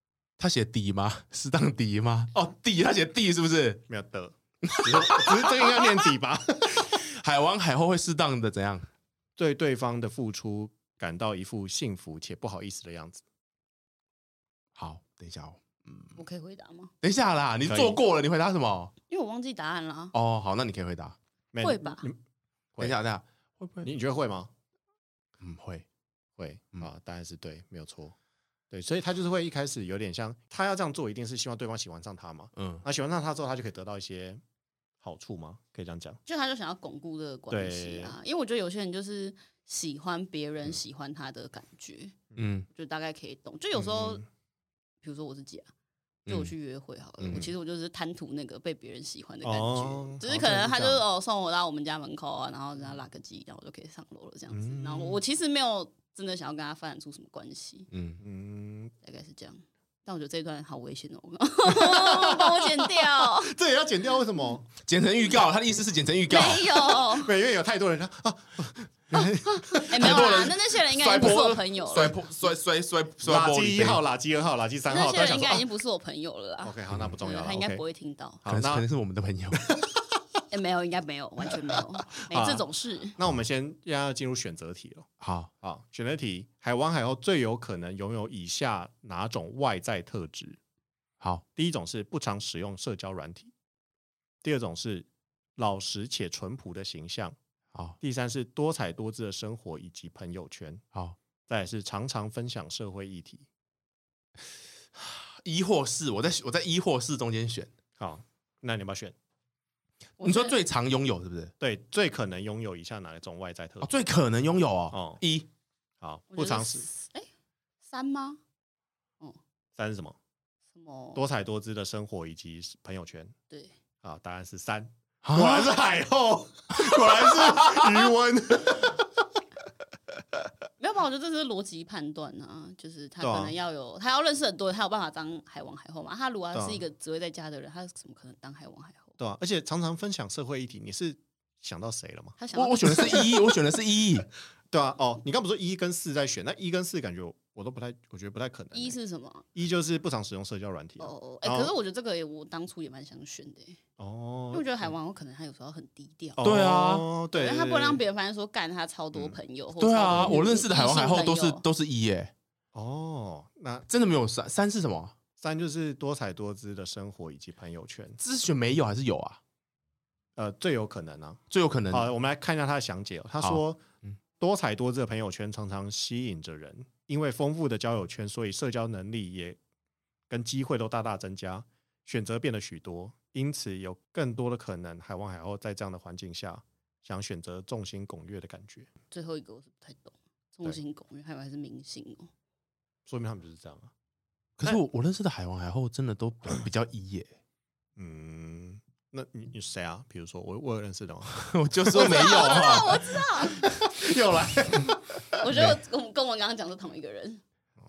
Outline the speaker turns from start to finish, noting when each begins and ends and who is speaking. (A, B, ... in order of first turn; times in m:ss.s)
0:00.4-0:03.8 A
0:03.9-0:06.9 B
0:04.6-0:06.0 A
0:06.9-0:08.9 A
0:09.4-0:13.2 B
0:14.8-0:16.1 A
0:16.2-0:16.9 C
0:17.0-0:18.9 A
0:17.7-0:18.0 B
0:19.1-0:20.1 C
0:20.1-0:21.2 A
0:21.5-0:22.2 B
0:21.6-0:22.0 C
0:22.8-0:23.9 A
0:23.8-0:24.5 B
0:25.4-0:25.8 A
0:26.4-0:28.1 B
0:28.7-0:34.4 B
0:32.6-0:32.8 A
0:35.0-0:36.2 B
0:36.2-0:42.1 C
0:37.5-0:38.2 B
0:42.4-0:42.7 A
0:42.7-0:44.2 C
0:43.7-0:44.2 B
0:45.0-0:45.7 C
0:46.3-0:57.9 C
0:47.2-0:47.5 B
0:49.4-0:50.8 B
0:50.6-0:51.0 A
0:54.5-0:55.2 B
0:57.9-0:58.2 A
0:58.2-0:58.9 B
0:59.0-1:03.6 C
1:01.7-1:04.7 B
1:04.8-1:06.8 A
1:06.3-1:07.3 C
1:07.1-1:10.4 B
1:09.5-1:12.2 C
1:09.9-1:14.0 A
1:13.2-1:15.6 B
1:14.9-1:18.4 C
1:16.6-1:17.8 B
1:18.4-1:18.9 B
1:18.4-1:19.6 A
1:19.6-1:19.9 B
1:20.5-1:23.2 C
1:22.2-1:25.1 B
1:25.2-1:25.5 A
1:25.6-1:30.6 B
1:31.6-1:33.5 B
1:34.4-1:37.4 B
1:38.0-1:40.8 B
1:41.5-1:43.4 B
1:44.9-1:47.7 A
1:48.0-1:49.1 B
1:50.2-1:50.6 C
1:50.2-1:51.5 A
1:51.6-1:53.9 B
1:53.8-1:55.5 A
1:54.9-1:55.2 B
1:56.0-1:56.9 B
1:56.3-1:57.3 C
1:57.9-1:58.4 C
1:59.8-2:00.2 B
2:00.7-2:01.2 C
2:01.1-2:03.3 B
2:04.0-2:09.1 B
2:05.2-2:05.8 A
2:06.8-2:07.9 A
2:10.8-2:19.2 C
2:13.2-2:13.5 B
2:16.5-2:16.8 B
2:19.2-2:22.4 B
2:22.4-2:23.3 C
2:22.5-2:24.3 A
2:23.0-2:23.3 B
2:24.7-2:29.0 B
2:28.7-2:29.4 C
2:29.5-2:31.7 B
2:31.0-2:33.8 C
2:34.0-2:34.9 B
2:34.5-2:36.4 C
2:36.4-2:38.0 B
2:36.4-2:37.1 A
2:37.3-2:41.6 C
2:39.8-2:42.3 A
2:42.7-2:43.9 B
2:43.9-2:45.1 A
2:45.4-2:48.2 B
2:48.2-2:49.4 A
2:50.4-2:53.8 B
2:51.5-2:52.0 A
2:53.4-2:54.1 A
2:54.4-2:59.6 B
3:00.3-3:08.9 B
3:09.1-3:12.3 C
3:13.1-3:13.9 B
3:14.6-3:17.3 A
3:18.0-3:25.4 B
3:21.3-3:24.1 A
3:22.0-3:23.7 C
3:25.4-3:27.4 C